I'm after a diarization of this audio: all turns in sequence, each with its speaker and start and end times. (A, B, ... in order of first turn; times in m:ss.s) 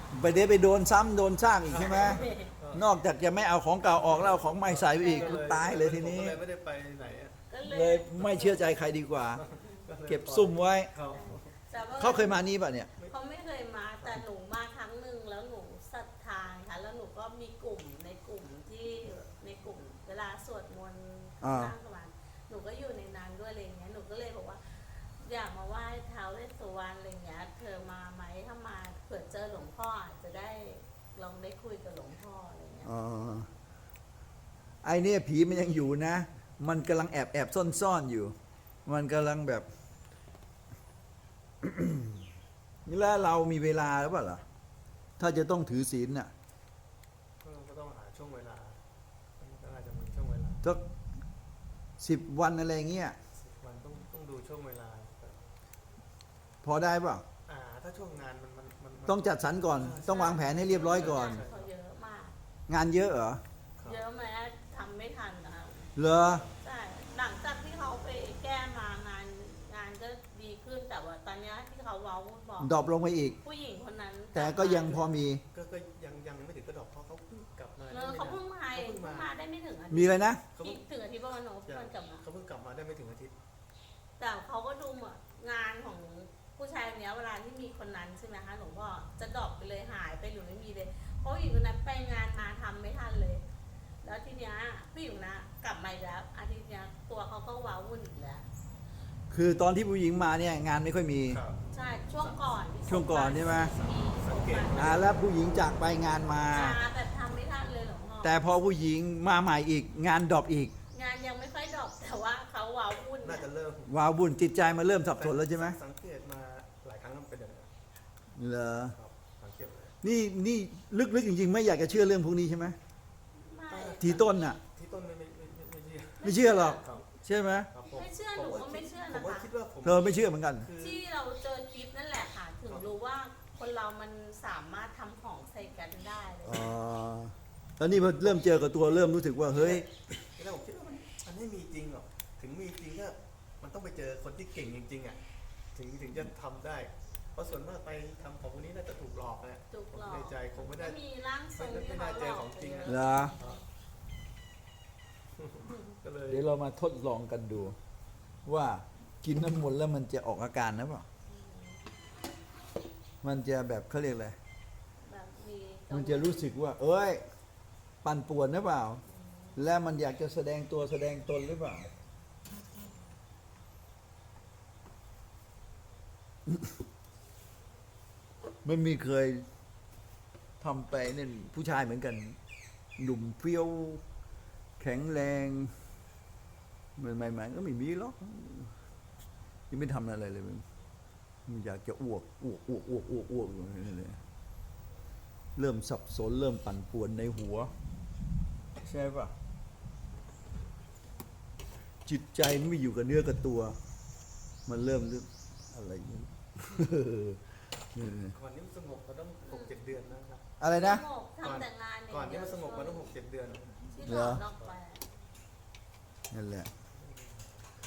0:00.1-0:06.4 A
0:01.7-0:02.8 B
0:01.8-0:02.5 C
0:03.9-0:07.4 B
0:04.9-0:05.5 C
0:07.5-0:08.6 C
0:07.6-0:09.4 A
0:09.3-0:11.5 B
0:10.1-0:10.9 A
0:11.1-0:12.4 C
0:12.0-0:12.9 A
0:13.1-0:32.9 C
0:21.4-0:21.7 A
0:32.8-0:33.5 A
0:34.8-0:38.3 A
0:38.8-0:39.6 A
0:41.6-0:42.3 A
0:42.8-0:44.4 A
0:45.2-0:46.3 A
0:47.4-0:48.8 B
0:49.4-0:50.6 B
0:52.0-0:53.1 A
0:53.4-0:55.4 B
0:56.6-0:57.2 A
0:57.4-1:01.7 B
0:59.1-1:01.4 A
1:00.1-1:02.3 C
1:02.7-1:03.4 A
1:03.8-1:04.0 B
1:03.8-1:05.9 C
1:06.0-1:06.4 A
1:06.2-1:06.6 B
1:06.6-1:12.7 C
1:12.6-1:13.4 A
1:13.4-1:15.1 C
1:14.3-1:15.4 A
1:15.5-1:19.3 B
1:17.9-1:22.2 C
1:19.9-1:20.4 A
1:20.5-1:20.8 B
1:21.7-1:23.3 B
1:24.2-1:33.4 C
1:34.0-1:38.4 C
1:39.3-1:41.4 A
1:41.3-1:41.6 B
1:41.7-1:45.0 C
1:42.2-1:42.5 B
1:42.9-1:43.7 A
1:43.5-1:45.2 B
1:44.8-1:46.8 A
1:46.4-1:48.4 C
1:48.2-1:50.7 A
1:50.9-1:53.5 C
1:53.2-1:53.9 B
1:53.9-1:55.8 A
1:55.1-1:57.7 B
1:58.4-1:59.0 A
1:58.9-2:00.0 B
2:00.0-2:02.8 A
2:03.4-2:04.2 C
2:03.7-2:07.0 B
2:04.0-2:04.6 A
2:06.2-2:07.0 C
2:06.2-2:07.7 A
2:07.7-2:11.0 B
2:07.9-2:09.5 C
2:09.8-2:10.7 A
2:10.8-2:16.7 C
2:16.4-2:19.8 A
2:19.5-2:25.2 B
2:25.7-2:31.0 B
2:29.7-2:33.6 C
2:31.6-2:33.6 B
2:32.8-2:33.3 A
2:35.4-2:36.4 B
2:36.3-2:37.8 A
2:38.4-2:41.0 A
2:41.3-2:41.8 C
2:43.2-2:44.4 A
2:45.0-2:46.5 C
2:45.9-2:47.2 A
2:48.0-2:49.0 A
2:49.1-2:49.6 C
2:49.6-2:51.9 A
2:56.5-2:56.7 A
2:58.6-2:59.4 A
3:00.6-3:02.4 A
3:03.0-3:04.0 A
3:04.8-3:05.7 A
3:07.0-3:08.7 A
3:09.7-3:10.6 A
3:11.4-3:14.2 A
3:15.6-3:17.7 A
3:18.8-3:19.3 A
3:22.0-3:23.8 A
3:24.6-3:27.4 A
3:27.9-3:28.4 A
3:28.3-3:30.4 B
3:30.6-3:31.0 A
3:30.7-3:33.1 C
3:31.4-3:34.7 B
3:33.9-3:35.0 C
3:34.0-3:34.4 A
3:36.3-3:36.7 A
3:36.9-3:37.5 B